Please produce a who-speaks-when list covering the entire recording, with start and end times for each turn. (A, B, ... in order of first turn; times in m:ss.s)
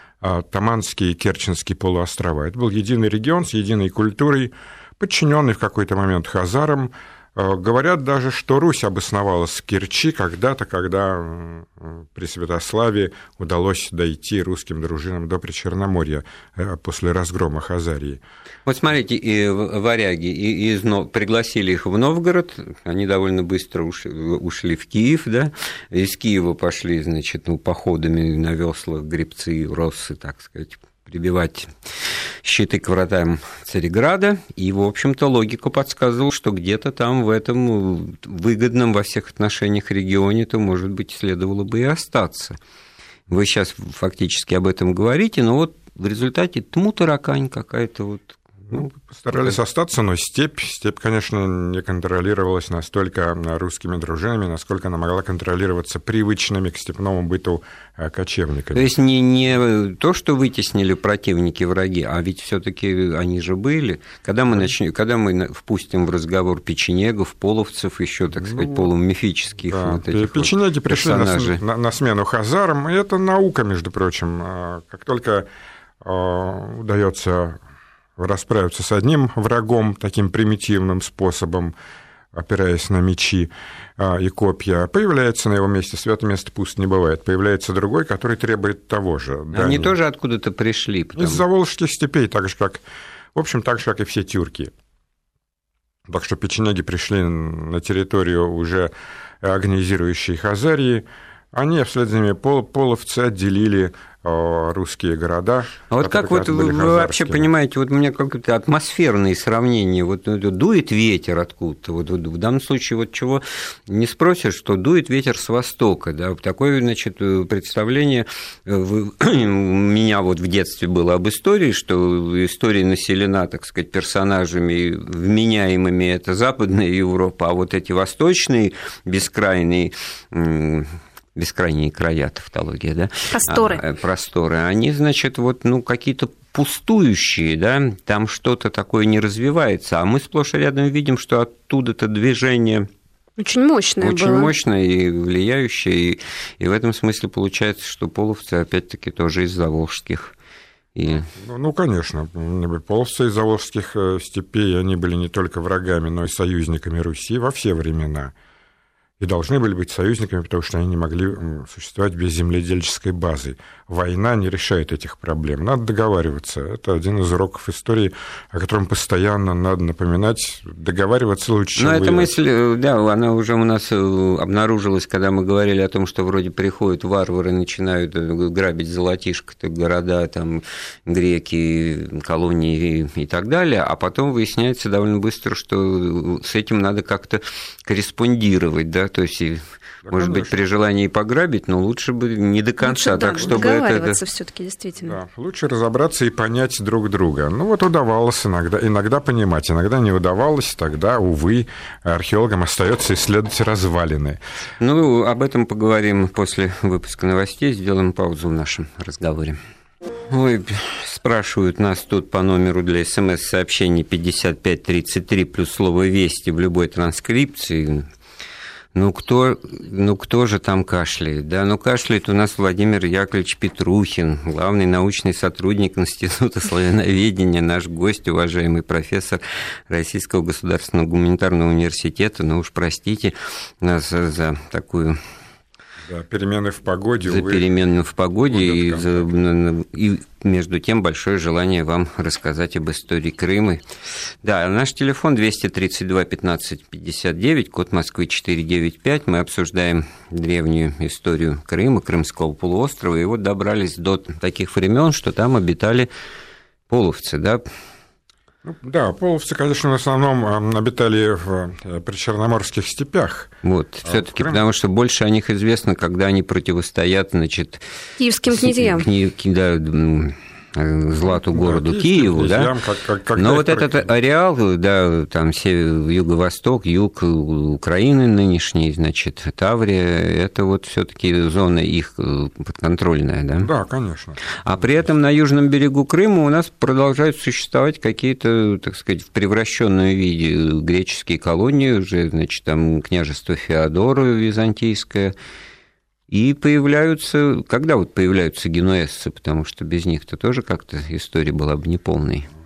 0:00.2-0:18.2 A
0:18.6-0:42.6 B
0:43.3-0:49.6 B
0:48.7-0:58.8 A
0:58.7-1:11.6 B
1:08.4-1:08.9 A
1:09.7-1:15.5 A
1:16.0-1:17.6 A
1:18.2-1:21.7 A
1:22.3-1:29.9 A
1:29.5-1:31.4 B
1:31.2-1:32.8 A
1:33.3-1:34.7 A
1:36.1-1:47.5 A
1:45.9-2:22.9 B
2:13.3-2:13.8 C
2:23.4-2:24.5 C
2:24.0-2:30.3 B
2:30.9-2:31.3 B
2:31.4-2:38.3 A
2:39.2-2:52.3 A
2:51.8-3:14.2 B
3:10.0-3:10.6 A
3:12.8-3:15.2 C
3:15.0-3:24.4 A
3:24.8-3:29.6 B
3:30.3-3:38.0 B
3:38.9-3:55.2 B
3:56.0-3:57.7 A
3:57.2-4:03.8 B
3:58.5-3:59.3 A
4:04.4-4:16.1 B
4:16.9-4:17.6 B
4:18.6-4:24.6 A
4:23.6-4:27.8 B
4:28.2-4:29.1 C
4:28.5-4:32.7 B
4:31.5-4:34.1 A
4:33.3-4:43.7 B
4:43.6-4:45.1 A
4:44.6-4:55.3 B
4:56.3-5:02.5 B